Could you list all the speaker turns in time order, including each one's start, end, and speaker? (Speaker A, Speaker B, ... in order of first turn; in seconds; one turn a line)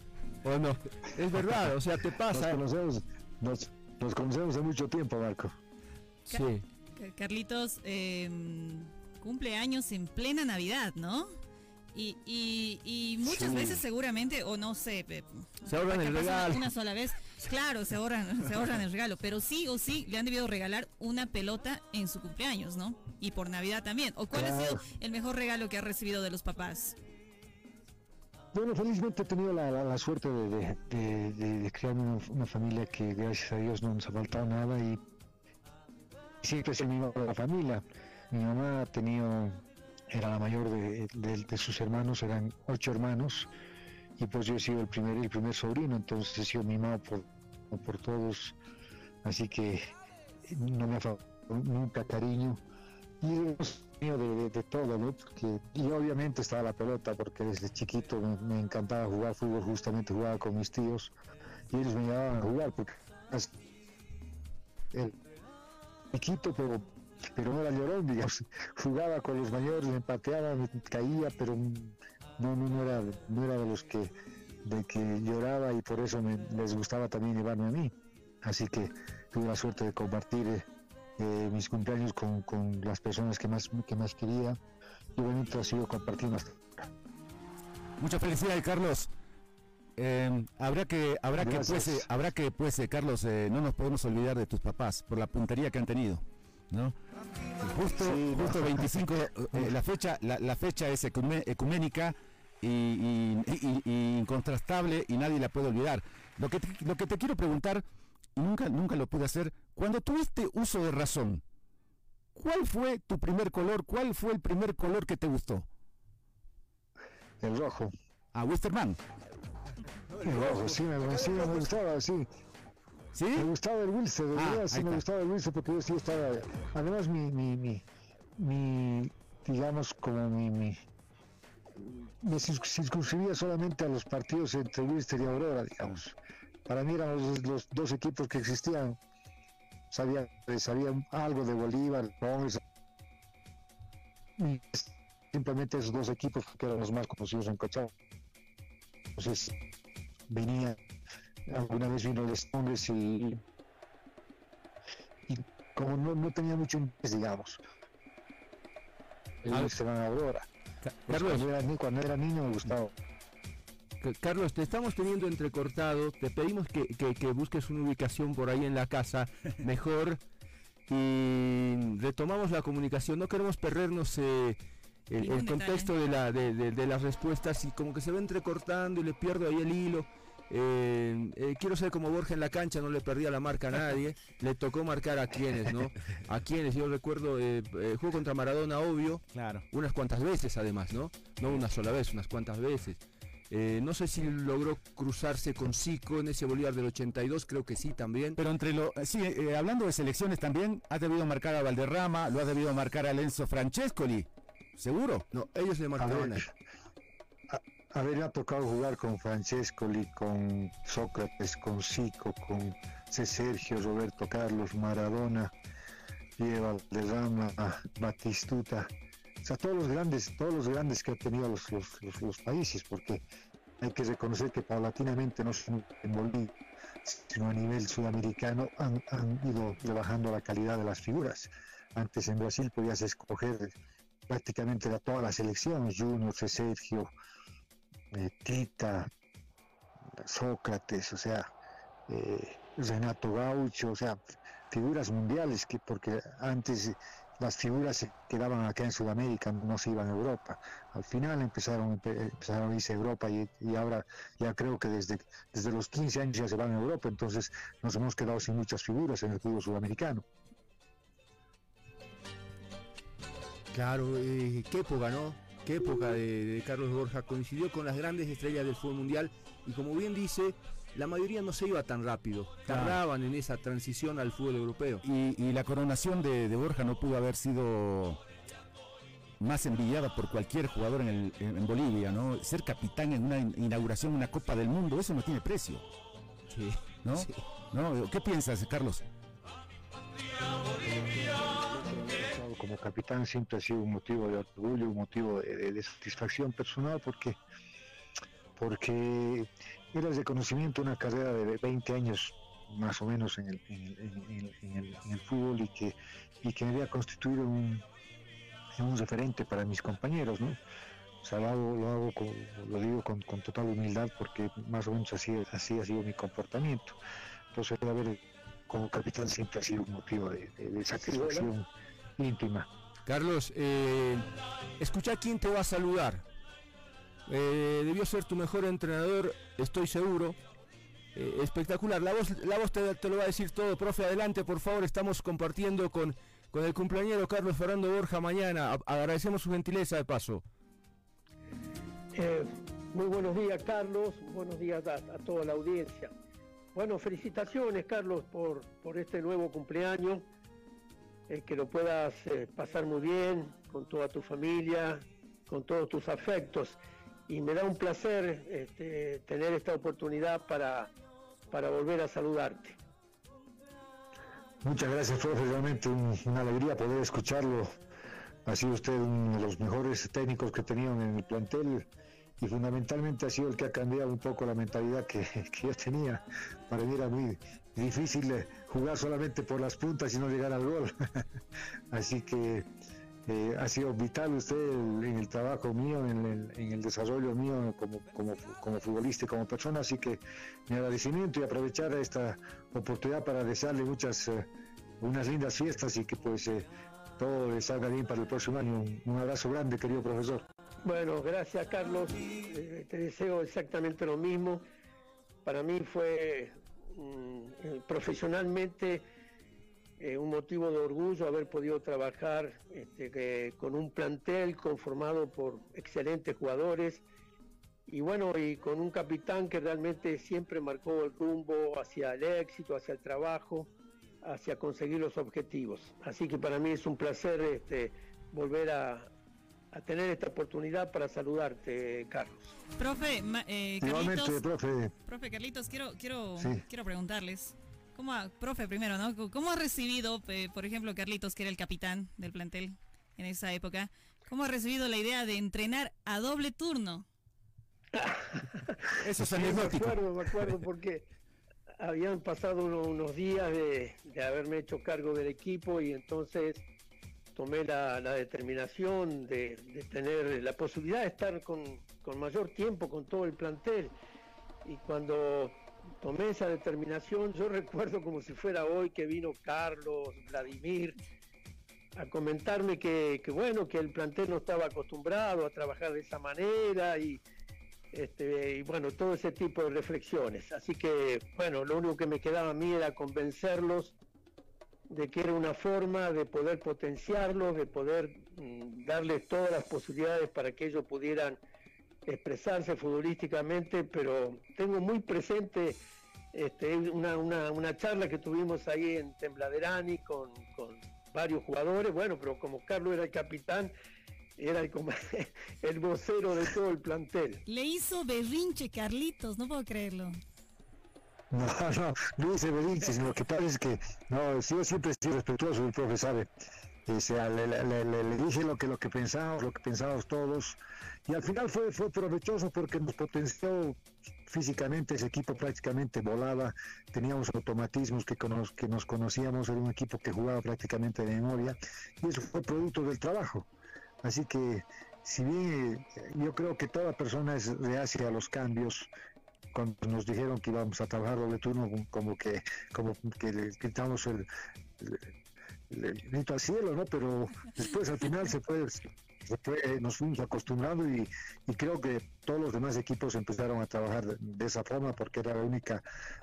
Speaker A: 0.4-2.6
Speaker B: 2.3-5.5
Speaker A: 6.3-6.6
Speaker C: 6.3-11.3
Speaker C: 11.9-27.0
Speaker B: 13.3-13.7
Speaker A: 15.7-16.7
Speaker B: 24.3-24.8
Speaker B: 28.5-35.0
Speaker B: 36.4-43.5
Speaker B: 44.2-48.6
Speaker B: 49.2-49.9
Speaker B: 50.5-52.6
Speaker B: 53.2-61.1
Speaker B: 61.7-63.5
Speaker B: 66.1-74.1
Speaker B: 74.6-80.7
Speaker B: 81.2-84.6
Speaker B: 85.2-86.6
Speaker D: 88.0-89.1
Speaker D: 90.0-97.0
Speaker B: 91.4-92.1
Speaker D: 97.7-107.8
Speaker B: 97.8-99.7
Speaker D: 108.4-111.4
Speaker D: 112.4-115.7
Speaker B: 117.4-117.9
Speaker D: 118.3-119.0
Speaker A: 120.1-121.7
Speaker B: 120.2-122.3
Speaker D: 123.2-123.5
Speaker B: 123.3-127.8
Speaker D: 124.3-125.0
Speaker B: 128.4-130.8
Speaker B: 132.2-136.2
Speaker B: 136.7-139.0
Speaker B: 139.9-142.6
Speaker B: 144.4-147.9
Speaker B: 149.2-149.5
Speaker B: 150.3-150.8
Speaker B: 151.5-153.4
Speaker B: 155.3-157.6
Speaker B: 159.4-160.5
Speaker A: 161.1-161.5
Speaker B: 161.1-162.9
Speaker A: 164.0-170.2
Speaker A: 170.9-193.0
Speaker C: 175.2-175.9
Speaker D: 189.3-189.6
Speaker A: 193.5-198.4
Speaker D: 198.4-205.2
Speaker A: 205.3-206.4
Speaker B: 206.0-206.5
Speaker B: 207.5-215.5
Speaker B: 216.4-218.9
Speaker B: 219.4-223.2
Speaker B: 223.8-226.5
Speaker B: 227.1-233.7
Speaker B: 234.3-237.1
Speaker B: 238.1-239.1
Speaker B: 240.1-241.5
Speaker B: 242.1-244.2
Speaker B: 244.7-260.2
Speaker A: 263.7-275.0
Speaker D: 272.7-273.0
Speaker D: 275.0-278.2
Speaker D: 279.4-285.9
Speaker A: 286.5-287.4
Speaker D: 287.1-289.0
Speaker B: 291.0-297.4
Speaker B: 298.6-307.8
Speaker B: 308.8-310.6
Speaker B: 311.2-317.0
Speaker B: 317.5-321.7
Speaker B: 322.2-322.7
Speaker A: 323.1-324.3
Speaker A: 324.8-326.2
Speaker A: 327.3-330.4
Speaker A: 331.1-340.4
Speaker E: 342.1-346.1
Speaker E: 346.8-350.3
Speaker E: 351.3-360.9
Speaker E: 361.5-362.8
Speaker B: 364.6-367.7
Speaker B: 368.5-371.9
Speaker B: 372.4-380.9
Speaker B: 381.9-382.7
Speaker B: 383.3-394.5
Speaker B: 395.0-396.7
Speaker B: 397.2-400.4
Speaker E: 400.8-404.7
Speaker E: 405.4-409.1
Speaker E: 410.0-417.1
Speaker E: 417.9-423.7
Speaker E: 424.2-429.1
Speaker E: 429.7-432.5
Speaker C: 432.8-434.4
Speaker B: 433.8-434.9
Speaker C: 435.1-447.1
Speaker B: 436.4-436.6
Speaker E: 447.9-451.1
Speaker A: 449.1-449.9
Speaker D: 449.3-449.9
Speaker E: 451.8-456.7
Speaker E: 457.4-463.9
Speaker E: 464.6-471.0
Speaker E: 472.0-477.2
Speaker E: 477.9-483.9
Speaker E: 484.9-491.4
Speaker E: 492.1-495.8
Speaker E: 496.3-503.7
Speaker E: 504.4-507.4
Speaker C: 507.5-510.2
Speaker B: 511.3-516.3
Speaker B: 516.9-533.5
Speaker B: 534.0-538.9
Speaker B: 539.5-544.3
Speaker B: 544.8-545.1
Speaker B: 545.7-555.8